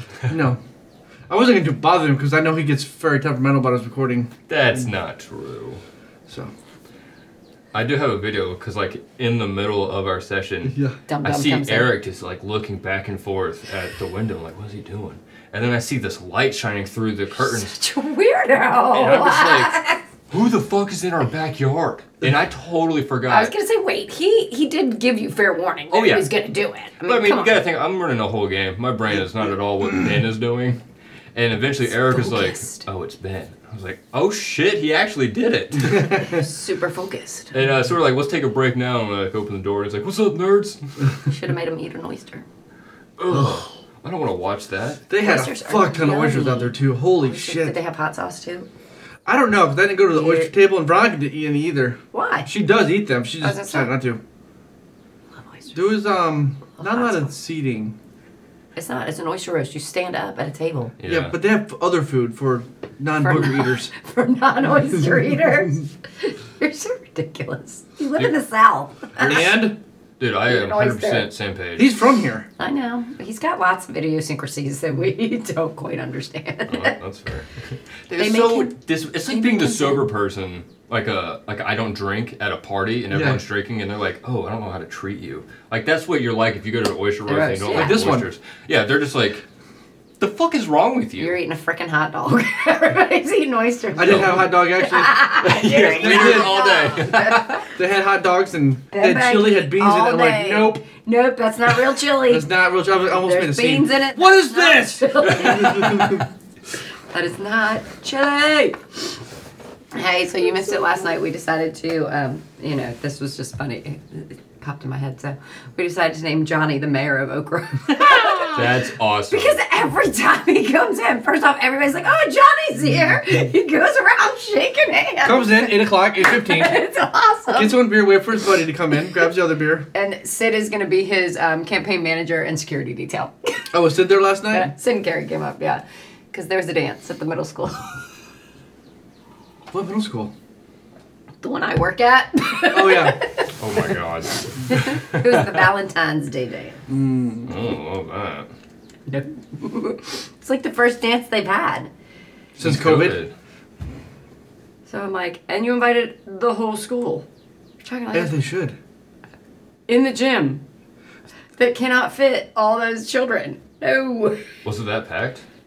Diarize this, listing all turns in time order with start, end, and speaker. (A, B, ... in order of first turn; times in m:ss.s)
0:00.3-0:00.6 A
0:01.3-0:04.3 A
0:04.5-0:05.8 B
0:07.7-0:17.8 B
0:10.6-0:11.0 A
0:11.1-0:11.9 C
0:17.4-0:20.0 C
0:18.9-0:23.5 B
0:23.3-0:27.6 C
0:25.9-0:26.3 B
0:27.0-0:30.8 B
0:31.3-0:36.2 B
0:31.9-0:32.8 C
0:36.1-0:37.6 C
0:37.5-0:40.9 B
0:41.2-0:42.4 C
0:43.2-0:45.0 B
0:45.1-0:47.8 A
0:45.2-0:48.7 C
0:49.2-0:54.2 A
0:50.1-0:50.5 C
0:52.1-0:52.5 C
0:53.4-0:53.9 C
0:55.7-0:57.9 A
0:56.8-0:57.3 C
0:58.8-1:00.9 C
1:01.0-1:01.4 B
1:01.0-1:03.9 A
1:03.2-1:09.5 C
1:09.1-1:11.9 B
1:09.2-1:09.8 A
1:10.4-1:11.3 C
1:11.8-1:12.5 A
1:12.6-1:17.0 C
1:16.7-1:29.4 B
1:18.1-1:20.1 C
1:23.1-1:23.4 A
1:27.3-1:28.1 C
1:27.7-1:28.3 A
1:30.2-1:31.4 B
1:31.2-1:37.6 C
1:34.0-1:36.6 A
1:34.1-1:34.3 B
1:35.4-1:37.6 B
1:37.7-1:40.8 A
1:38.9-1:42.5 C
1:42.3-1:46.2 A
1:43.1-1:46.2 C
1:47.1-1:49.0 C
1:49.9-2:07.8 C
1:58.4-1:59.6 B
2:05.2-2:06.8 A
2:07.5-2:09.9 A
2:09.9-2:13.7 C
2:13.7-2:14.7 A
2:14.5-2:18.0 C
2:19.7-2:20.3 A
2:21.4-2:23.5 C
2:22.7-2:23.2 A
2:23.6-2:25.6 B
2:24.6-2:26.8 C
2:26.9-2:27.5 A
2:27.4-2:28.5 B
2:29.1-2:31.9 C
2:32.6-2:33.2 A
2:32.6-2:33.3 B
2:34.9-2:37.2 C
2:37.8-2:38.4 C
2:38.1-2:38.8 A
2:39.9-2:40.6 C
2:41.6-2:44.4 C
2:44.6-2:45.4 B